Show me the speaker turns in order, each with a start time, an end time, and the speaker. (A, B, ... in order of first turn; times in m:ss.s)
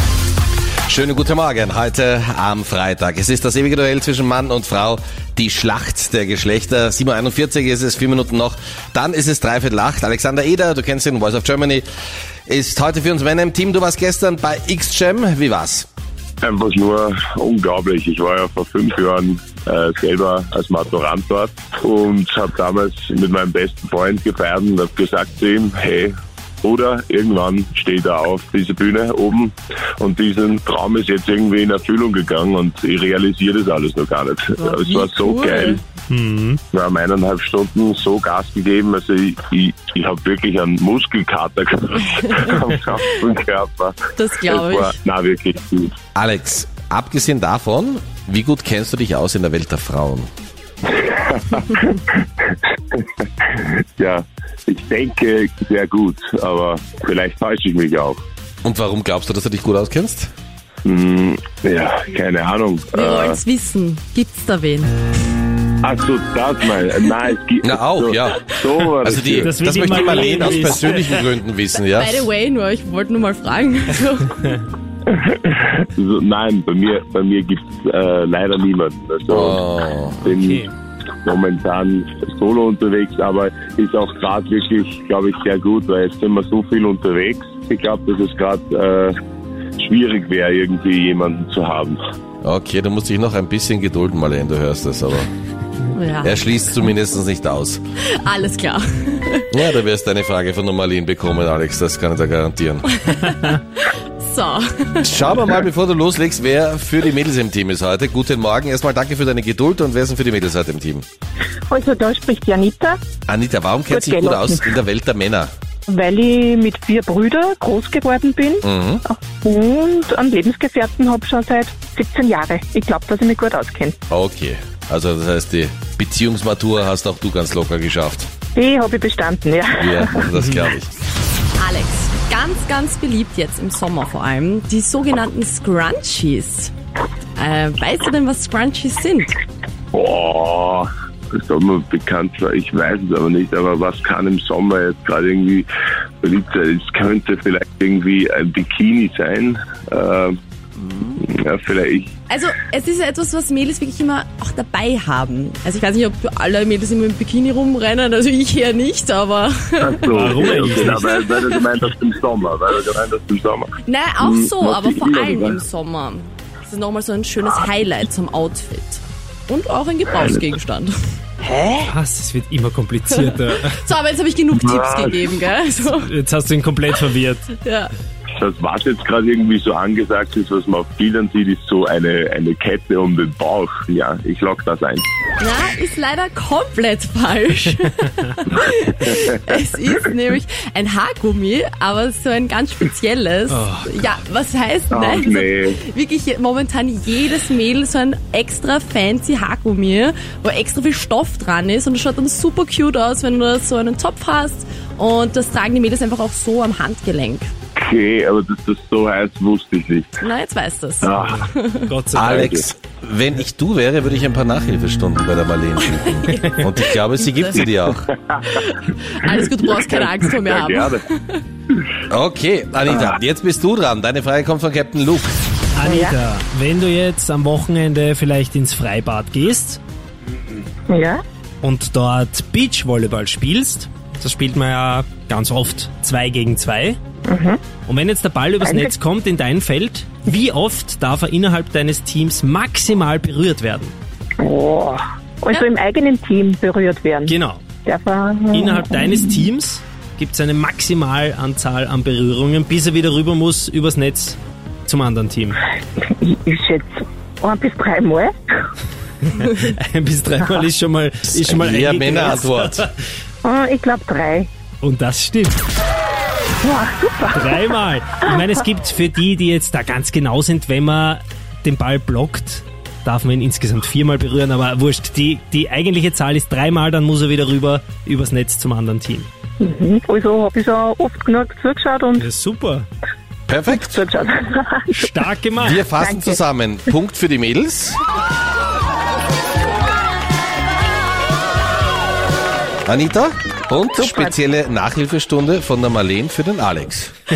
0:00.9-0:11.8 A
0:12.5-0:15.9 A
0:16.4-0:35.8 B
0:34.6-0:35.8 C
0:36.1-0:36.6 D
0:36.7-0:45.9 B
0:44.2-0:45.0 C
0:46.2-0:50.3 A
0:50.9-0:58.2 B
0:58.6-1:00.3 A
1:00.8-1:03.4 B
1:02.9-1:04.9 C
1:05.8-1:09.6 B
1:07.6-1:08.4 A
1:09.0-1:12.3 A
1:09.4-1:11.2 D
1:10.0-1:10.9 C
1:11.8-1:14.4 C
1:15.1-1:19.6 B
1:19.3-1:20.2 A
1:20.2-1:20.6 B
1:20.3-1:20.7 D
1:21.2-1:29.1 B
1:29.8-1:32.0 B
1:32.4-1:35.3 A
1:35.9-1:36.4 C
1:36.2-1:37.8 A
1:38.2-1:39.5 C
1:39.5-1:42.9 A
1:43.0-1:45.3 C
1:45.0-1:51.0 A
1:51.7-1:53.0 E
1:53.3-1:55.5 A
1:53.9-1:54.7 E
1:55.9-2:04.0 E
1:58.6-1:59.0 A
2:04.1-2:08.3 A
2:08.5-2:10.2 E
2:09.8-2:10.9 A
2:10.4-2:10.6 D
2:11.6-2:16.7 C
2:17.4-2:19.3 C
2:19.9-2:25.7 B
2:26.2-2:30.4 B
2:30.8-2:31.2 C
2:31.2-2:32.1 B
2:32.3-2:41.6 C
2:39.8-2:45.6 B
2:40.1-2:41.0 D
2:43.8-2:51.9 C
2:50.2-2:50.4 B
2:51.8-2:53.8 D
2:53.3-2:56.1 C
2:54.5-2:55.3 B
2:55.9-2:57.4 D
2:57.6-2:57.9 C
2:58.4-3:05.0 B
3:05.4-3:27.5 C
3:09.0-3:09.4 B
3:13.5-3:14.0 D
3:14.9-3:15.8 B
3:27.8-3:30.2 B
3:30.2-3:31.9 C
3:31.0-3:31.5 B
3:31.1-3:32.5 D
3:32.1-3:38.0 A
3:32.2-3:32.7 B
3:35.8-3:41.4 C
3:39.6-3:41.0 B
3:42.1-3:45.3 A
3:45.7-3:49.8 D
3:45.8-3:46.1 E
3:50.9-3:51.2 E
3:51.6-3:57.0 D
3:57.3-3:57.6 E
3:57.8-4:03.9 D
3:58.6-3:58.9 E
4:04.4-4:07.3 E
4:07.3-4:07.6 D
4:07.8-4:09.2 E
4:08.5-4:15.6 D
4:16.0-4:18.3 E
4:19.3-4:22.9 D
4:21.4-4:22.8 A
4:23.4-4:24.5 E
4:24.8-4:25.6 D
4:26.6-4:27.7 E
4:27.3-4:39.3 D
4:39.6-4:42.2 E
4:42.2-4:42.9 D
4:43.5-4:44.0 A
4:43.7-4:45.0 E
4:44.9-4:45.8 D
4:45.6-4:48.0 A
4:46.0-4:46.4 E
4:52.8-4:57.1 A
4:54.0-4:54.3 E